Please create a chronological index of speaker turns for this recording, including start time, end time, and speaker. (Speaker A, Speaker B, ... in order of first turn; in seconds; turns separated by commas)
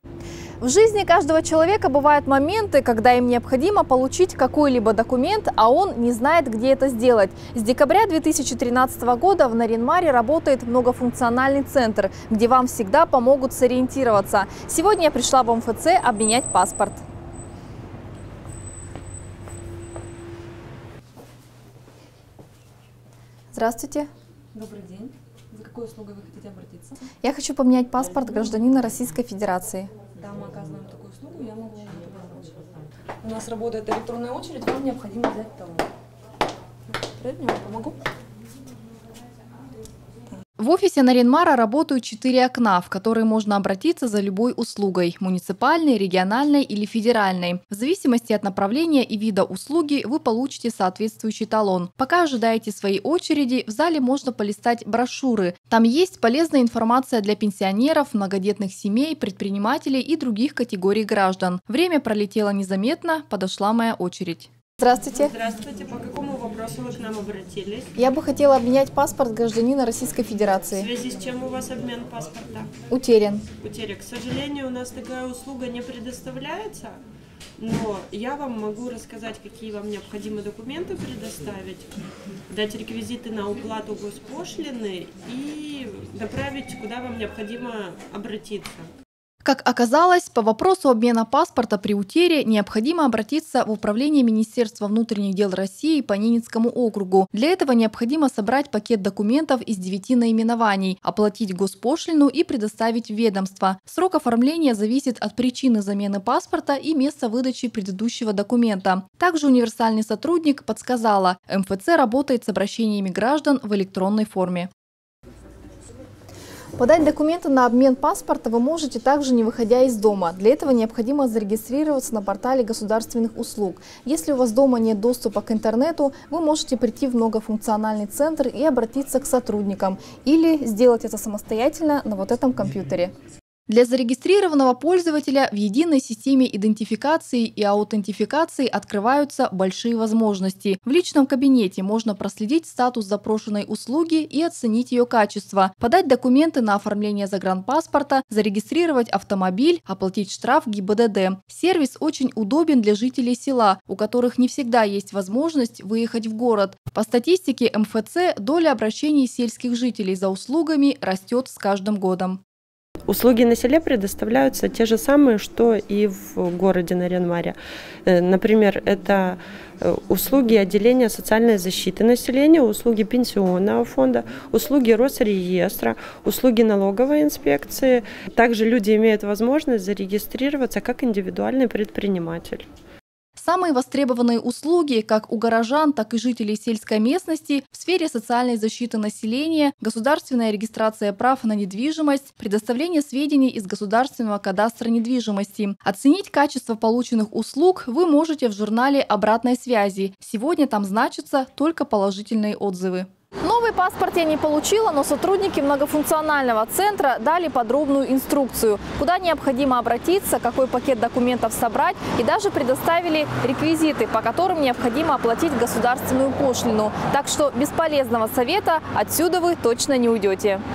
Speaker A: 0.6-17.0, Speaker A: 23.5-24.1, Speaker B: 24.5-26.9, Speaker A: 27.2-29.9, Speaker B: 30.2-32.7, Speaker B: 33.2-35.9, Speaker B: 37.2-38.0, Speaker A: 40.6-65.3, Speaker C: 65.0-68.0, Speaker A: 68.0-70.9, Speaker C: 70.7-72.7, Speaker A: 72.9-73.5, Speaker C: 73.6-77.0, Speaker C: 77.6-82.0, Speaker C: 82.5-88.9, Speaker A: 89.4-114.7, Speaker A: 116.8-133.1, Speaker A: 133.7-162.4, Speaker C: 163.1-182.7, Speaker A: 183.4-220.6